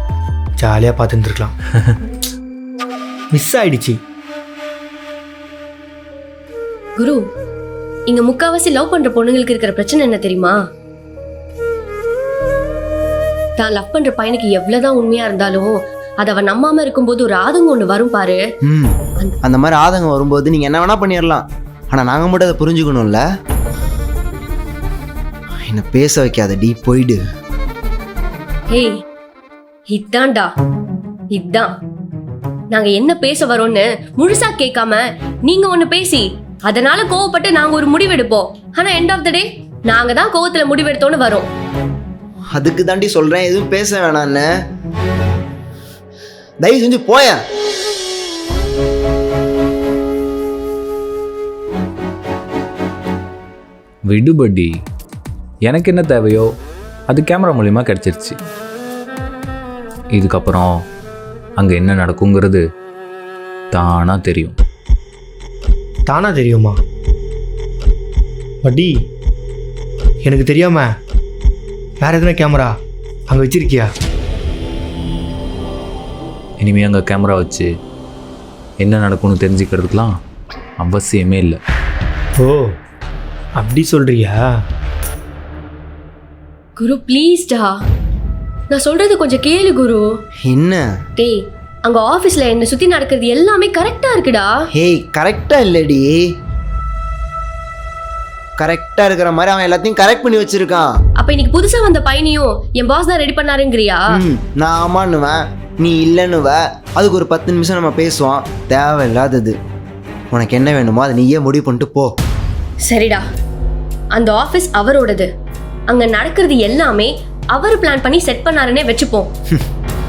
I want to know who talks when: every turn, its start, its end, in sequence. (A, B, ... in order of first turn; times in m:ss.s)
0:00.6-0:01.5 A
0:03.3-0:04.0 A
0:07.0-0:07.2 B
0:08.1-0:10.5 B
0:13.6-0:18.4 B
0:18.6-0:23.2 C
0:25.7-0:27.2 C
0:29.9-0:30.5 B
0:31.3-0:31.7 B
0:32.7-0:41.5 B
0:42.5-0:44.4 C
0:46.6-0:47.4 C
0:54.1-0:54.7 D
0:55.6-0:56.4 D
0:57.1-0:58.3 D
1:00.1-1:00.7 D
1:01.6-1:02.6 D
1:03.7-1:04.5 D
1:06.1-1:06.8 A
1:08.6-1:09.0 A
1:10.2-1:10.9 A
1:12.0-1:12.7 A
1:13.3-1:13.9 A
1:16.6-1:17.7 D
1:18.8-1:20.1 D
1:20.8-1:21.6 D
1:22.4-1:22.7 A
1:23.6-1:24.4 A
1:26.8-1:27.8 B
1:28.7-1:30.0 B
1:30.4-1:30.8 C
1:31.2-1:34.5 B
1:34.7-1:36.2 C
1:38.6-1:40.9 C
1:41.2-1:44.0 B
1:44.1-1:49.6 C
1:50.3-1:52.1 C
1:52.8-1:53.2 B
1:54.1-1:55.3 B
1:55.9-1:59.3 B